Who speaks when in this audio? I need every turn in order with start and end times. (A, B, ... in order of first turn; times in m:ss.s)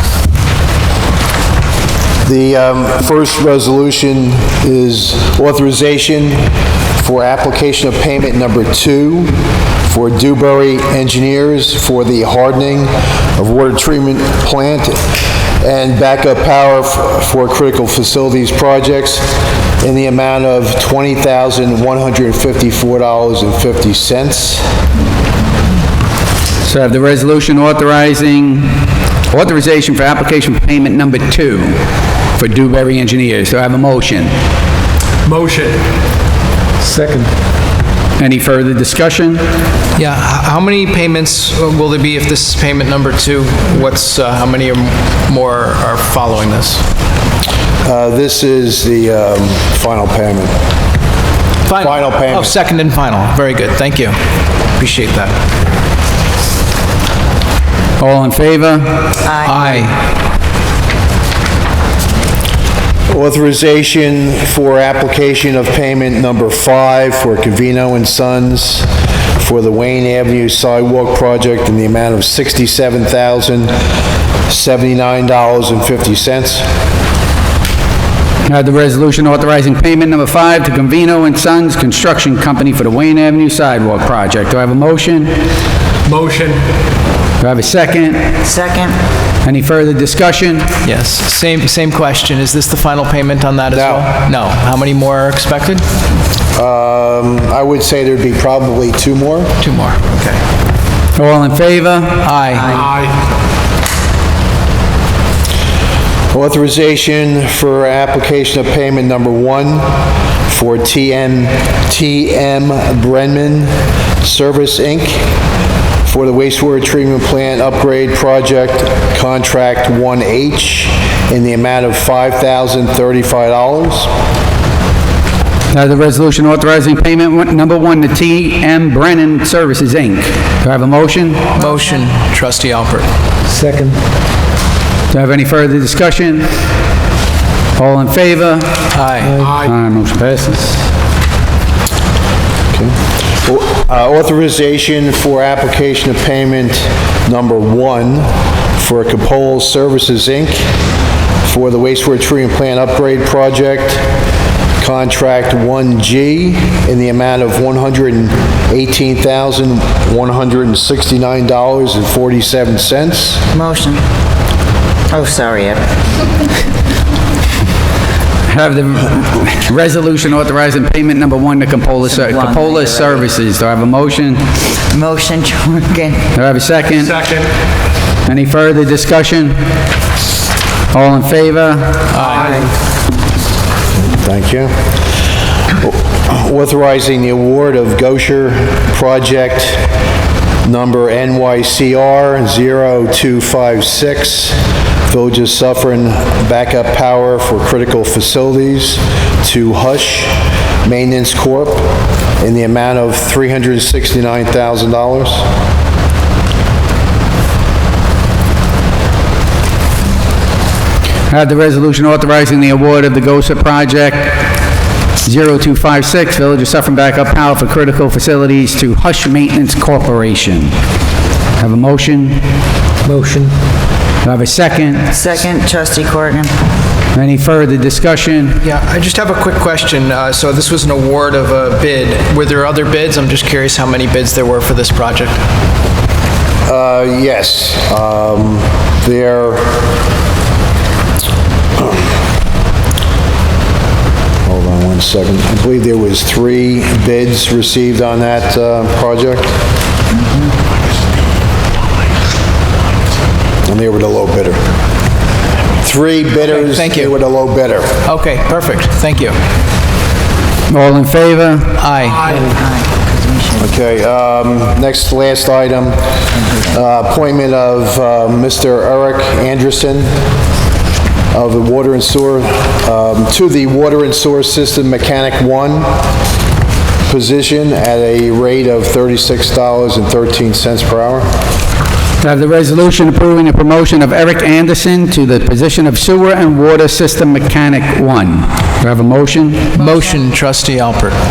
0:02.2-0:15.0 A
0:15.6-0:24.8 A
0:26.6-0:31.8 B
0:32.4-0:34.3 B
0:35.3-0:35.8 C
0:36.8-0:37.3 C
0:38.2-0:39.5 B
0:40.0-0:46.8 D
0:47.8-0:50.5 A
0:51.6-0:54.2 D
0:51.8-0:52.6 A
0:54.8-0:55.3 D
0:58.0-0:59.2 B
0:59.2-0:59.9 E
0:59.4-1:00.0 D
1:03.1-1:13.7 A
1:14.4-1:16.6 A
1:18.4-1:25.3 B
1:26.1-1:26.5 C
1:27.4-1:28.4 B
1:28.4-1:29.0 E
1:29.4-1:30.8 B
1:30.8-1:35.8 D
1:33.7-1:34.1 A
1:36.5-1:39.5 A
1:39.6-1:40.4 D
1:41.2-1:42.3 B
1:42.2-1:43.0 D
1:46.3-1:55.3 A
1:56.0-2:04.1 A
2:05.7-2:11.6 B
2:11.5-2:13.1 D
2:13.5-2:14.0 C
2:15.1-2:16.5 B
2:17.8-2:20.8 B
2:18.9-2:19.4 D
2:22.7-2:30.7 A
2:31.4-2:34.1 A
2:34.8-2:43.4 A
2:43.5-2:44.0 E
2:45.1-2:45.9 E
2:48.5-2:54.5 B
2:52.0-2:53.3 E
2:54.6-2:56.3 E
2:56.3-2:57.4 B
2:58.2-2:59.6 B
3:00.9-3:02.3 B
3:02.1-3:02.6 D
3:02.2-3:02.7 E
3:04.0-3:04.7 A
3:05.8-3:09.9 A
3:10.6-3:25.5 A
3:31.3-3:34.5 B
3:35.2-3:40.7 B
3:41.6-3:42.4 B
3:43.0-3:43.5 C
3:44.2-3:45.1 B
3:45.1-3:46.5 E
3:47.1-3:48.6 B
3:48.6-3:55.4 D
3:56.6-3:59.8 A
4:04.4-4:09.6 A
4:13.6-4:14.6 A
4:15.8-4:18.0 A
4:16.4-4:17.1 D
4:18.0-4:19.4 D
4:20.7-4:21.8 B
4:21.8-4:22.4 D
4:22.3-4:23.6 E
4:23.6-4:26.0 A
4:26.7-4:30.1 A
4:31.3-4:35.9 A
4:37.0-4:41.3 A
4:42.2-4:49.7 B
4:49.7-4:51.2 D